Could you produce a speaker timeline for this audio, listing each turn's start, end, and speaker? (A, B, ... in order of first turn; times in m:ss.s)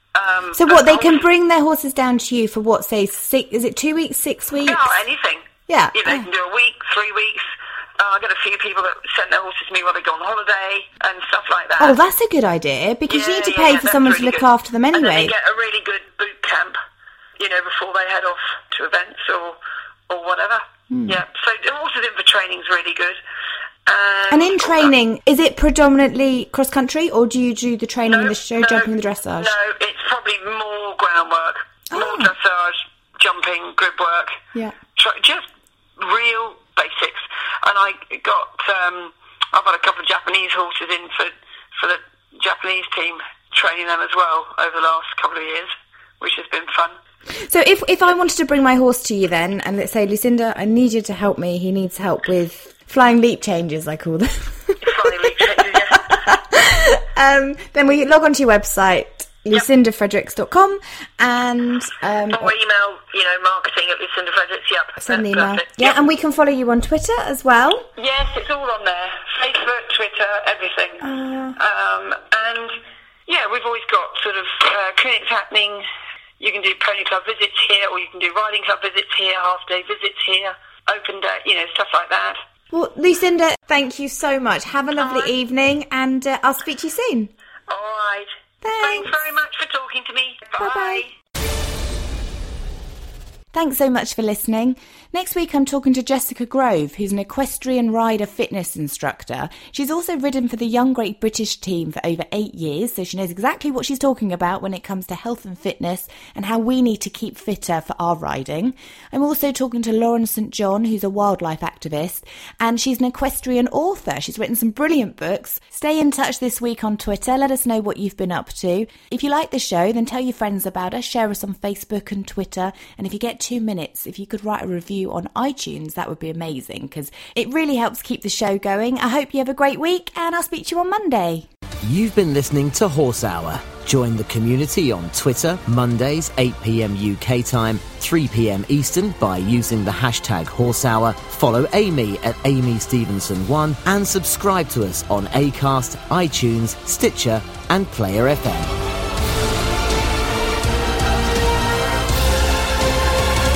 0:00.1-0:01.2 A
0:00.5-0:05.0 B
0:04.6-0:12.0 A
0:05.7-0:06.3 B
0:11.8-0:15.3 B
0:13.1-0:16.8 A
0:17.4-0:19.6 A
0:20.1-0:23.2 A
0:20.9-0:21.2 B
0:23.8-0:24.9 A
0:24.3-0:29.5 B
0:28.1-0:34.4 A
0:31.9-0:32.3 B
0:35.0-0:47.0 A
0:47.3-1:02.5 B
0:54.8-0:56.3 A
1:02.3-1:06.0 A
1:05.0-1:07.9 B
1:08.0-1:11.0 A
1:11.0-1:11.6 B
1:11.6-1:15.8 A
1:16.4-1:22.4 A
1:22.7-1:27.3 B
1:25.0-1:25.3 A
1:27.7-1:31.1 A
1:28.6-1:29.3 B
1:30.6-1:31.0 B
1:33.5-2:11.5 B
2:11.8-2:28.7 C